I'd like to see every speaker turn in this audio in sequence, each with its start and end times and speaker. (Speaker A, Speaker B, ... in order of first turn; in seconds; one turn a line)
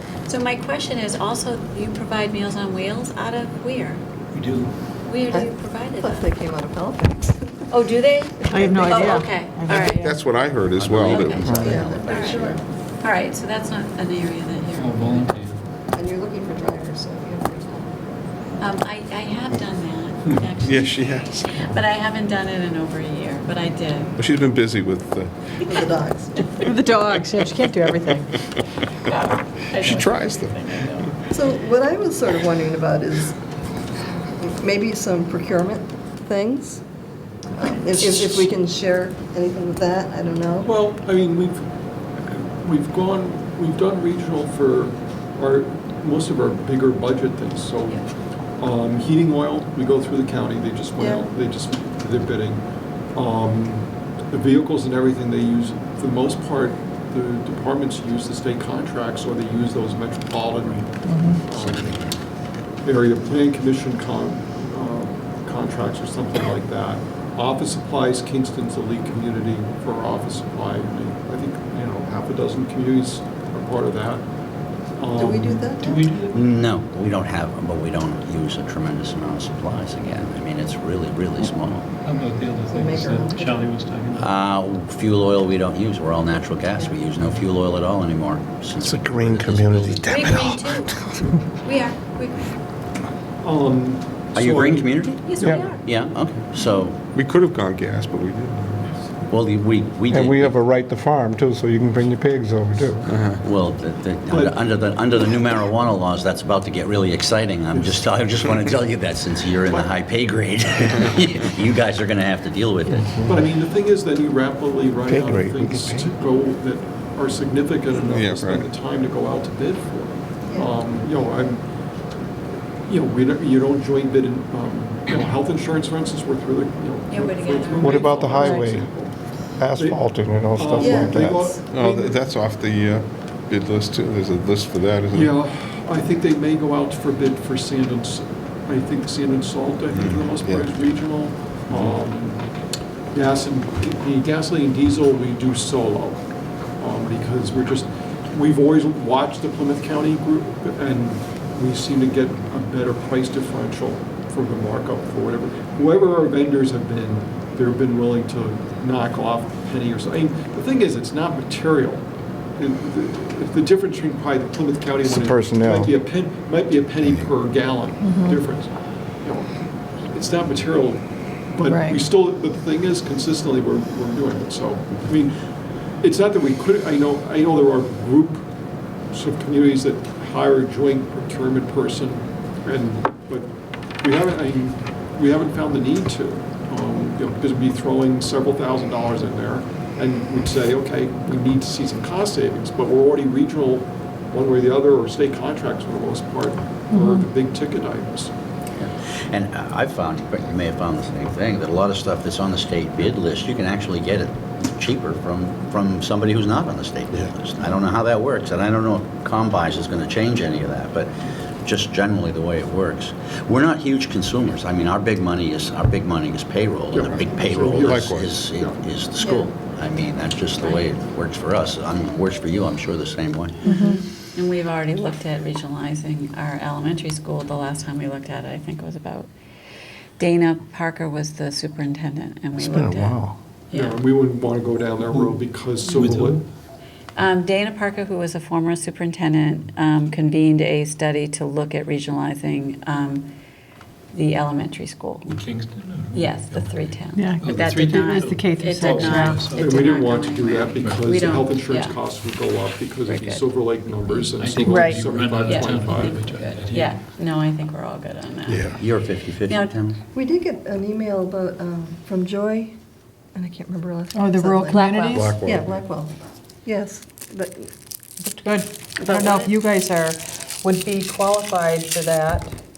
Speaker A: 0.3-4.0
Speaker B: 4.3-4.7
Speaker A: 5.0-6.3
Speaker C: 5.3-7.6
Speaker A: 7.7-10.1
Speaker D: 8.5-10.2
Speaker E: 9.7-11.6
Speaker F: 10.8-12.6
Speaker A: 11.1-11.5
Speaker C: 11.4-12.6
Speaker G: 11.5-11.8
Speaker A: 12.0-15.3
Speaker B: 14.8-15.6
Speaker C: 15.9-18.0
Speaker A: 18.6-24.2
Speaker E: 20.6-21.6
Speaker E: 24.2-25.3
Speaker C: 25.6-26.6
Speaker D: 26.6-28.3
Speaker A: 29.0-31.2
Speaker E: 29.8-30.6
Speaker C: 31.3-33.4
Speaker C: 34.3-36.8
Speaker C: 37.5-40.7
Speaker H: 40.6-48.0
Speaker H: 48.6-62.0
Speaker C: 51.0-51.3
Speaker D: 61.1-61.4
Speaker F: 61.5-62.1
Speaker H: 62.8-74.3
Speaker H: 75.0-75.7
Speaker C: 75.2-76.1
Speaker B: 75.7-76.5
Speaker F: 76.3-81.9
Speaker B: 82.0-84.3
Speaker C: 82.7-83.7
Speaker F: 84.1-90.1
Speaker G: 88.8-91.3
Speaker A: 90.0-90.9
Speaker A: 91.6-92.5
Speaker H: 93.4-95.0
Speaker F: 94.3-97.0
Speaker A: 95.2-95.8
Speaker G: 95.4-95.7
Speaker E: 97.1-99.0
Speaker F: 99.3-100.6
Speaker G: 100.1-103.0
Speaker E: 103.1-103.4
Speaker F: 103.4-113.2
Speaker H: 104.3-104.6
Speaker H: 107.7-108.1
Speaker H: 109.7-109.9
Speaker G: 112.9-113.3
Speaker H: 113.2-121.7
Speaker G: 115.1-116.1
Speaker E: 118.1-118.7
Speaker C: 120.4-120.8
Speaker H: 122.8-129.1
Speaker A: 127.1-128.8
Speaker G: 127.8-128.9
Speaker G: 129.6-131.6
Speaker H: 129.7-130.0
Speaker H: 130.5-132.1
Speaker C: 130.8-132.0
Speaker E: 131.7-135.3
Speaker H: 135.1-142.5
Speaker E: 140.0-140.7
Speaker H: 143.1-146.2
Speaker H: 146.8-162.0
Speaker H: 162.6-169.5
Speaker G: 165.1-165.9
Speaker C: 168.0-168.4
Speaker H: 170.1-175.3
Speaker D: 171.7-172.0
Speaker H: 176.0-178.4
Speaker H: 179.1-198.3
Speaker D: 196.9-197.3
Speaker F: 198.8-223.8
Speaker H: 216.9-218.8
Speaker E: 217.6-218.4
Speaker C: 219.2-219.5
Speaker A: 220.6-220.9
Speaker D: 223.7-224.0
Speaker A: 223.7-229.3
Speaker A: 230.2-234.0
Speaker G: 232.6-233.3
Speaker H: 233.7-236.4
Speaker B: 235.1-235.4
Speaker B: 236.0-236.5
Speaker A: 237.2-243.3
Speaker A: 244.1-245.3
Speaker B: 245.2-250.0
Speaker A: 246.1-252.0
Speaker D: 247.1-249.6
Speaker H: 249.6-256.1
Speaker B: 250.8-251.5
Speaker A: 253.1-253.6
Speaker B: 254.4-257.0
Speaker D: 254.6-255.1
Speaker A: 255.4-258.9
Speaker F: 258.8-260.0
Speaker A: 259.5-259.8
Speaker C: 260.1-262.8
Speaker C: 263.4-266.1
Speaker D: 264.1-265.4
Speaker G: 265.1-265.9
Speaker C: 266.6-267.7
Speaker D: 268.2-272.5
Speaker C: 269.0-269.5